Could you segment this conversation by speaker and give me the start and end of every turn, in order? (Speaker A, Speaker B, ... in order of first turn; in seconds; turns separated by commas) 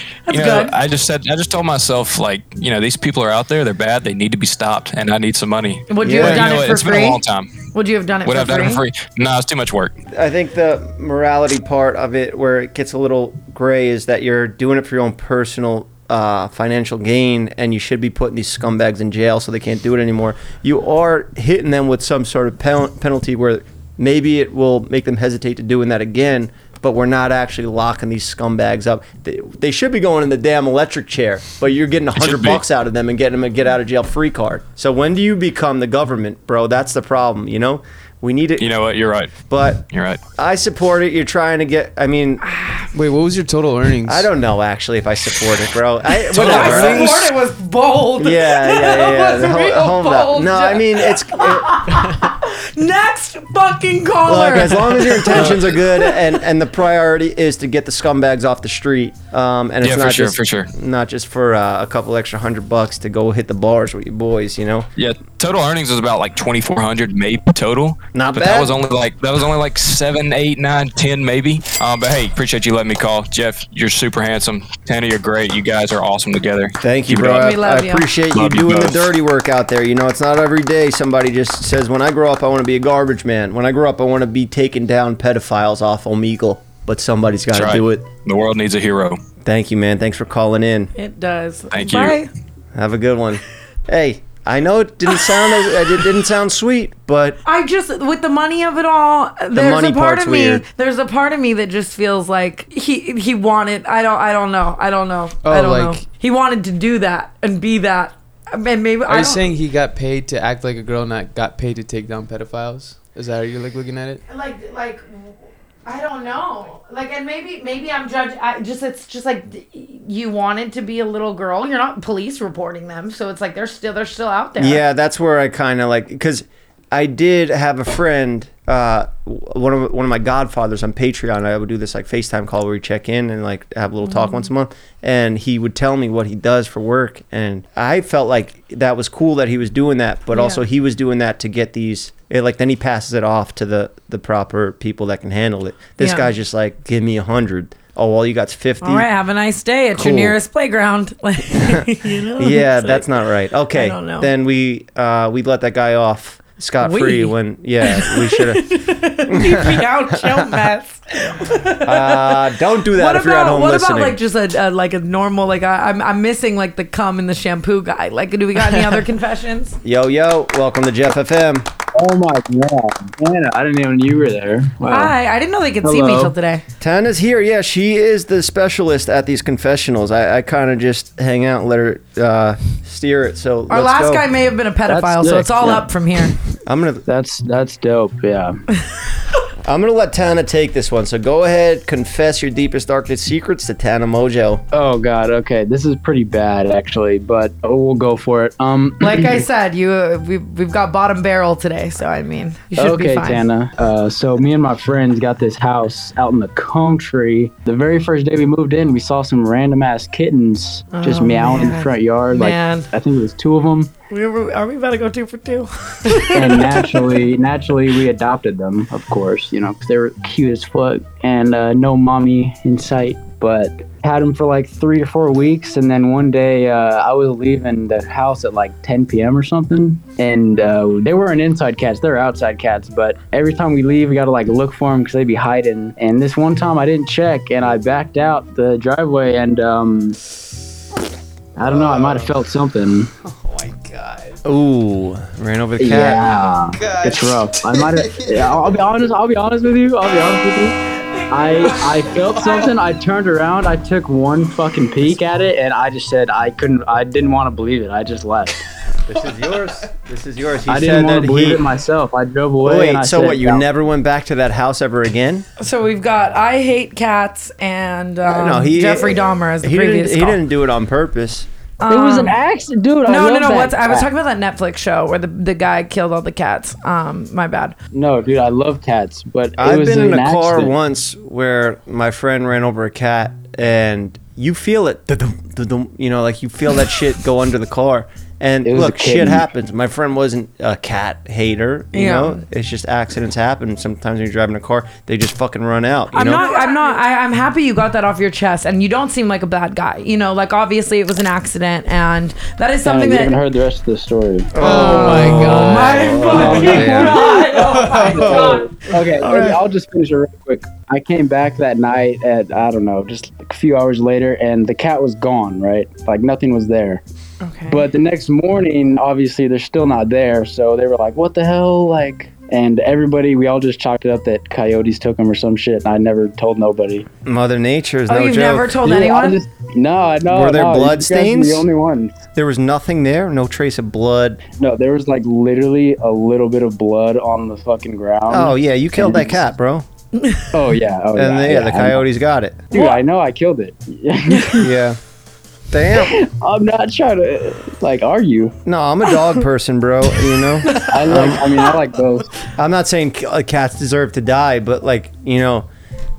Speaker A: 0.3-0.7, Speaker B: 0.3-7.5, Speaker A: 5.9-7.2, Speaker C: 6.0-6.5, Speaker A: 7.7-8.8, Speaker B: 8.2-10.0, Speaker C: 10.1-38.7, Speaker B: 32.2-32.6, Speaker B: 38.6-39.3, Speaker C: 39.5-39.8, Speaker B: 39.9-40.2, Speaker C: 40.4-42.4, Speaker A: 42.4-42.9, Speaker D: 42.9-44.3, Speaker C: 44.0-47.3, Speaker A: 46.1-56.2, Speaker B: 46.3-47.1, Speaker C: 48.2-52.1, Speaker C: 54.2-64.9, Speaker B: 59.8-60.7, Speaker B: 65.0-77.5, Speaker C: 68.1-68.8, Speaker C: 76.8-88.1, Speaker A: 77.3-78.1, Speaker B: 78.3-79.1, Speaker B: 87.5-89.2, Speaker C: 89.4-90.9, Speaker A: 91.0-92.3, Speaker B: 91.7-92.2, Speaker C: 92.7-97.4, Speaker A: 97.4-109.4, Speaker C: 99.5-100.6, Speaker D: 105.4-106.0, Speaker D: 109.1-114.2, Speaker A: 114.3-115.0, Speaker A: 115.8-124.8, Speaker C: 124.6-149.1, Speaker A: 134.1-134.4, Speaker A: 140.3-140.6, Speaker A: 146.0-146.3, Speaker A: 148.8-153.1, Speaker C: 149.9-150.4, Speaker C: 151.5-158.7, Speaker A: 153.7-154.3, Speaker A: 156.8-169.8, Speaker C: 159.2-160.6, Speaker C: 161.8-164.2, Speaker C: 169.8-171.7, Speaker E: 171.9-175.1, Speaker A: 174.8-176.6, Speaker E: 175.8-176.3, Speaker C: 176.8-184.2, Speaker A: 183.7-186.3, Speaker E: 184.9-185.9, Speaker C: 186.7-187.0, Speaker E: 187.1-188.6, Speaker C: 189.6-194.6, Speaker E: 194.7-199.4, Speaker A: 199.0-203.4, Speaker E: 202.8-213.9, Speaker A: 210.9-212.9, Speaker A: 214.1-217.0, Speaker E: 216.3-240.2, Speaker E: 241.6-243.1, Speaker C: 241.6-242.3, Speaker C: 243.2-246.4, Speaker E: 245.8-250.8, Speaker D: 246.6-247.3, Speaker A: 251.0-252.3, Speaker E: 251.3-258.6, Speaker C: 259.1-261.7, Speaker E: 260.7-263.7, Speaker C: 262.6-265.4, Speaker A: 265.6-270.4, Speaker C: 268.2-271.5, Speaker A: 271.8-272.4, Speaker E: 271.9-274.1, Speaker A: 273.1-277.8, Speaker E: 277.9-280.7, Speaker C: 279.6-296.4, Speaker E: 288.6-289.4, Speaker A: 291.9-292.4, Speaker A: 296.1-303.4, Speaker E: 302.8-307.3, Speaker C: 304.5-307.1, Speaker D: 304.6-308.7, Speaker A: 304.6-309.6, Speaker E: 307.9-317.0, Speaker A: 317.4-317.8, Speaker E: 317.7-327.1, Speaker C: 327.2-328.9, Speaker A: 328.1-329.4, Speaker E: 328.8-332.2, Speaker C: 330.3-331.6, Speaker C: 332.3-334.4, Speaker E: 334.6-339.4, Speaker C: 338.3-339.9, Speaker A: 340.2-340.5, Speaker E: 340.5-342.0, Speaker C: 341.1-342.7, Speaker E: 342.7-344.7, Speaker A: 342.7-343.0, Speaker A: 344.3-344.6, Speaker C: 344.6-345.0, Speaker C: 345.7-346.2, Speaker E: 345.9-348.6, Speaker C: 348.6-351.5, Speaker A: 350.6-350.9, Speaker E: 350.8-352.3, Speaker C: 352.6-355.7